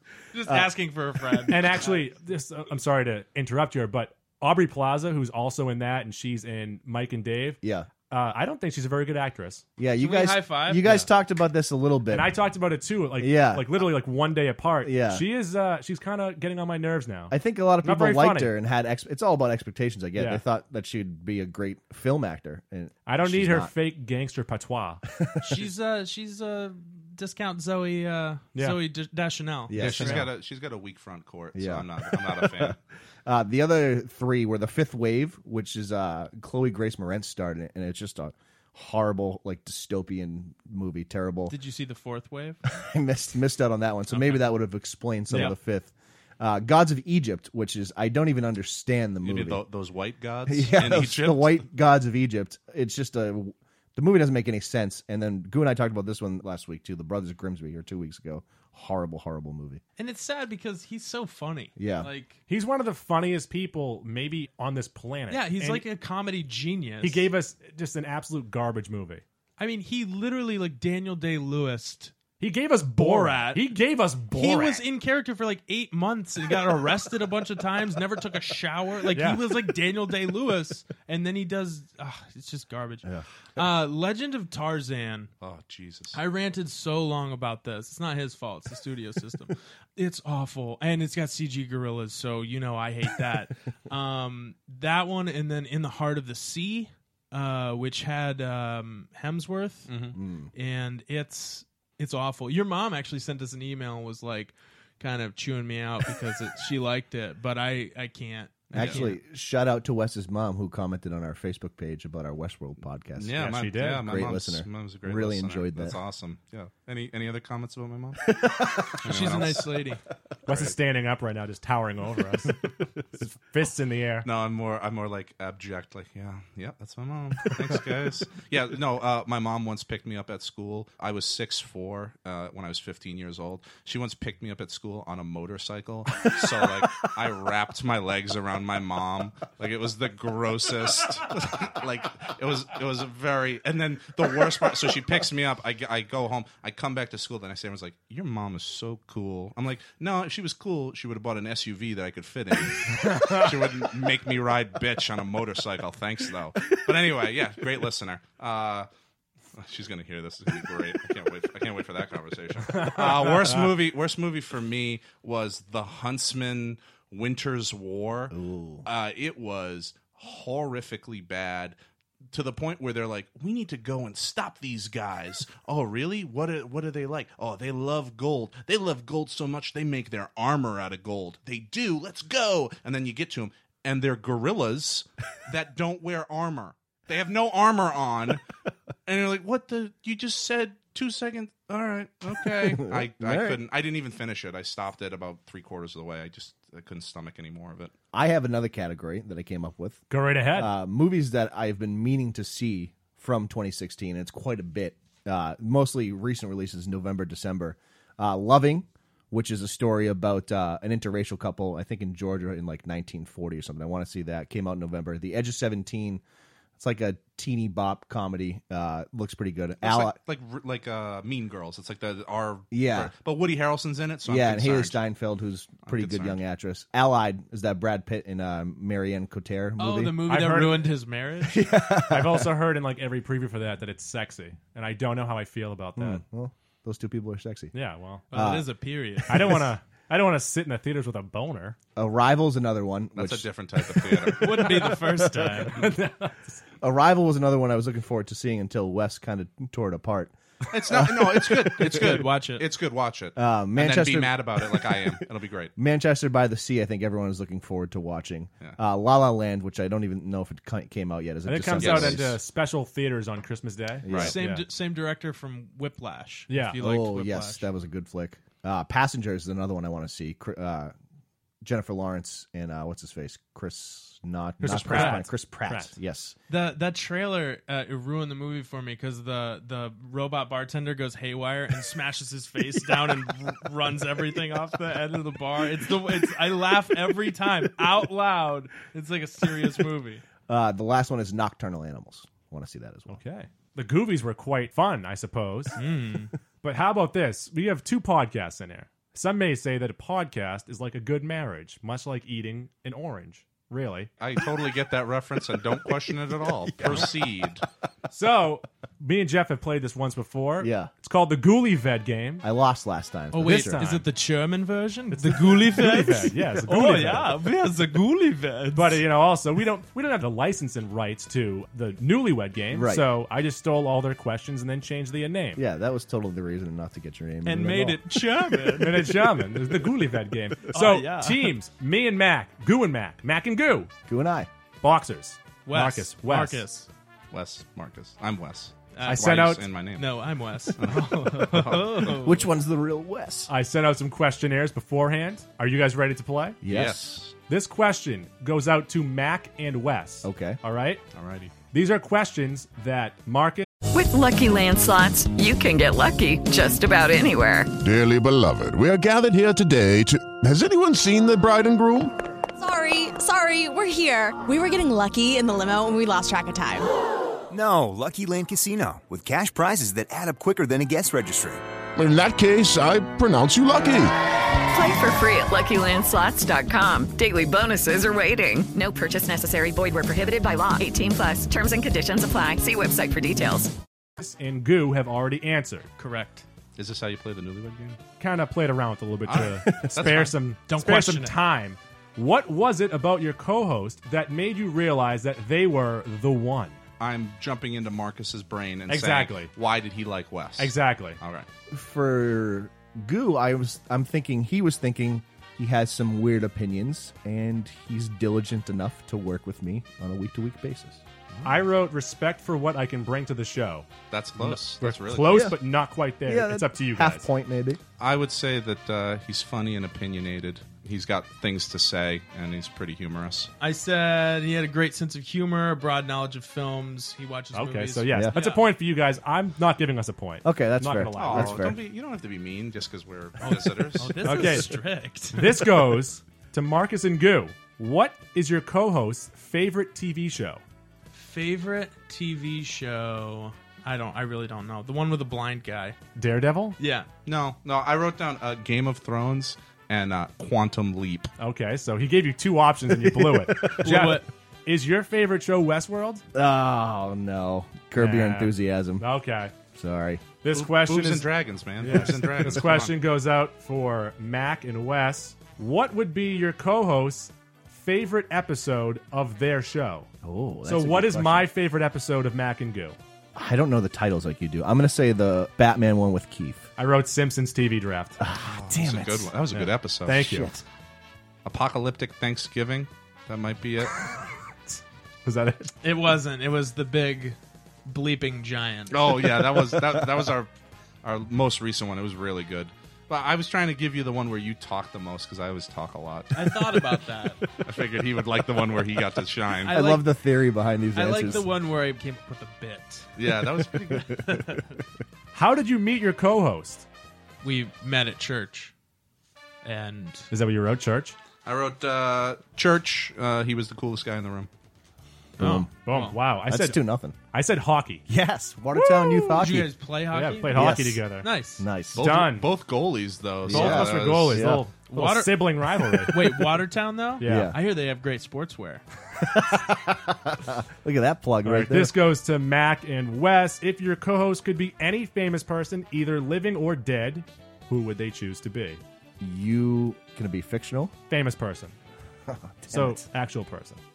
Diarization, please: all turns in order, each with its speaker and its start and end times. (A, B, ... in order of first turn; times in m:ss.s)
0:00.3-0:02.0 A
0:01.5-0:09.6 B
0:07.6-0:07.9 C
0:09.8-0:12.4 C
0:10.0-0:11.0 A
0:12.1-0:18.5 B
0:13.2-0:13.9 C
0:14.8-0:15.3 C
0:17.3-0:23.7 C
0:20.2-0:20.4 B
0:23.1-0:25.0 B
0:25.2-0:25.6 C
0:25.4-0:30.2 A
0:28.6-0:28.8 B
0:29.7-0:30.3 C
0:29.8-0:32.8 D
0:31.5-0:41.6 C
0:41.5-0:42.6 A
0:42.7-0:49.6 C
0:49.2-0:51.6 D
0:50.5-0:59.8 C
1:00.0-1:02.4 A
1:01.8-1:02.1 C
1:02.5-1:05.8 B
1:05.3-1:07.3 A
1:07.0-1:09.2 B
1:09.6-1:12.1 A
1:12.4-1:14.8 B
1:13.0-1:13.8 A
1:14.3-1:25.3 A
1:19.1-1:19.4 B
1:25.4-1:26.2 D
1:26.1-1:40.0 A
1:39.9-1:40.2 D
1:40.2-1:40.5 C
1:40.5-1:49.2 A
1:48.7-1:49.0 D
1:48.7-1:56.0 C
1:53.2-1:58.4 D
1:53.4-1:54.0 B
1:58.3-1:58.9 C
1:59.0-1:59.8 D
1:59.0-2:00.0 A
2:00.5-2:00.8 D
2:00.5-2:02.6 B
2:03.2-2:04.3 B
2:04.2-2:38.9 D
2:33.1-2:33.4 B
2:39.6-2:51.8 D
2:48.3-2:48.9 C
2:52.3-3:08.4 D
3:09.1-3:17.9 D
3:12.5-3:13.6 C
3:18.1-3:36.2 C
3:20.1-3:20.7 B
3:36.8-3:40.2 C
3:39.8-3:45.0 D
3:42.7-3:43.1 C
3:44.3-3:50.2 C
3:45.8-3:46.4 D
3:49.8-3:51.8 A
3:50.3-3:50.9 B
3:51.4-3:52.5 C
3:52.1-3:56.2 B
3:56.0-3:57.7 C
3:57.7-3:58.2 B
3:58.3-3:58.7 C
3:58.3-3:59.6 A
3:59.2-3:59.6 C
3:59.3-4:01.8 B
4:02.0-4:05.9 C
4:03.2-4:04.7 D
4:04.4-4:05.8 A
4:05.7-4:06.6 B
4:06.8-4:12.3 C
4:10.7-4:15.7 D
4:11.9-4:12.6 A
4:13.4-4:15.2 C
4:15.8-4:22.4 C
4:21.5-4:24.6 B
4:21.8-4:22.2 D
4:24.0-4:24.4 C
4:24.1-4:24.4 D
4:24.2-4:27.7 A
4:26.5-4:26.8 B
4:26.8-4:30.9 C
4:31.6-4:36.4 C
4:34.6-4:35.9 B
4:34.9-4:35.2 A
4:36.5-4:50.2 A
4:50.5-4:53.2 C
4:53.1-4:55.8 B
4:55.8-4:56.3 A
4:56.6-5:04.1 B
5:04.2-5:07.6 D
5:06.8-5:07.1 C
5:08.1-5:12.4 B
5:10.6-5:10.9 C
5:12.4-5:13.9 C
5:13.3-5:19.0 A
5:13.4-5:14.0 B
5:15.1-5:17.3 B
5:18.7-5:25.6 B
5:22.7-5:23.1 C
5:25.6-5:28.2 C
5:27.4-5:29.2 A
5:28.8-5:33.9 B
5:30.7-5:31.6 A
5:34.1-5:34.5 C
5:34.8-5:36.6 B
5:35.7-5:36.9 A
5:37.3-5:40.1 D
5:38.9-5:42.5 A
5:39.0-5:39.7 B
5:40.8-5:42.2 D
5:42.0-5:43.5 C
5:43.5-5:46.6 B
5:46.6-5:47.1 C
5:46.7-5:47.4 D
5:47.5-5:51.0 B
5:50.2-5:50.6 C
5:51.1-5:51.5 D
5:51.7-5:53.7 B
5:53.9-5:57.7 E
5:57.8-6:02.2 F
6:02.6-6:06.9 G
6:07.5-6:11.6 H
6:12.0-6:14.2 F
6:14.7-6:23.7 E
6:24.2-6:25.9 B
6:26.0-6:26.4 A
6:26.8-6:28.0 D
6:28.2-6:36.8 B
6:29.3-6:30.4 D
6:30.7-6:31.4 A
6:37.0-6:41.5 D
6:38.9-6:39.5 B
6:40.6-6:41.2 B
6:41.7-6:51.0 C
6:51.3-6:51.6 D
6:51.4-6:53.9 B
6:54.1-6:55.6 D
6:54.4-6:57.2 B
6:55.3-6:55.6 C
6:56.2-6:57.8 C
6:58.0-7:03.5 D
7:03.6-7:08.6 A
7:07.5-7:11.6 B
7:08.1-7:08.4 C
7:10.4-7:11.8 C
7:11.2-7:14.6 D
7:13.4-7:15.7 A
7:14.2-7:14.8 B
7:15.3-7:20.6 B
7:21.1-7:26.0 A
7:26.2-7:26.8 B
7:26.8-7:27.1 A
7:27.2-7:31.3 D
7:31.4-7:36.2 B
7:33.0-7:33.9 C
7:33.8-7:34.3 A
7:36.3-7:39.1 C
7:38.0-7:39.5 B
7:39.8-7:40.3 C
7:40.4-7:50.1 B
7:40.5-7:43.0 D
7:50.2-7:51.5 C
7:50.6-7:53.0 B
7:53.4-7:56.7 C
7:56.8-7:58.2 B
7:58.2-7:59.3 C
7:58.4-8:00.5 D
7:59.5-8:00.5 B
8:00.3-8:00.6 C
8:01.4-8:04.1 D
8:04.7-8:05.7 B
8:05.8-8:09.4 A
8:08.9-8:10.5 D
8:11.0-8:16.9 D
8:16.3-8:17.5 A
8:17.6-8:19.8 D
8:19.6-8:20.1 A
8:19.7-8:21.5 C
8:20.9-8:23.1 A
8:23.2-8:24.2 D
8:23.8-8:24.8 A
8:25.3-8:26.8 B
8:27.4-8:28.7 A
8:29.6-8:30.3 A
8:30.3-8:31.2 B
8:31.4-8:34.5 D
8:35.4-8:35.7 C
8:35.4-8:36.2 A
8:35.4-8:38.0 B
8:36.4-8:37.2 C
8:38.1-8:39.7 C
8:38.8-8:39.4 B
8:39.3-8:41.7 A
8:40.1-8:41.3 B
8:40.5-8:41.1 C
8:41.6-8:42.0 C
8:41.9-8:42.5 B
8:41.9-8:44.5 D
8:43.5-8:44.6 C
8:43.5-8:46.2 B
8:44.9-8:48.8 A
8:47.2-8:47.5 B
8:47.2-8:47.6 C
8:49.2-8:52.0 C
8:51.4-8:58.8 B
8:59.2-9:00.9 C
9:01.1-9:01.7 B
9:02.3-9:03.0 C
9:02.7-9:03.8 B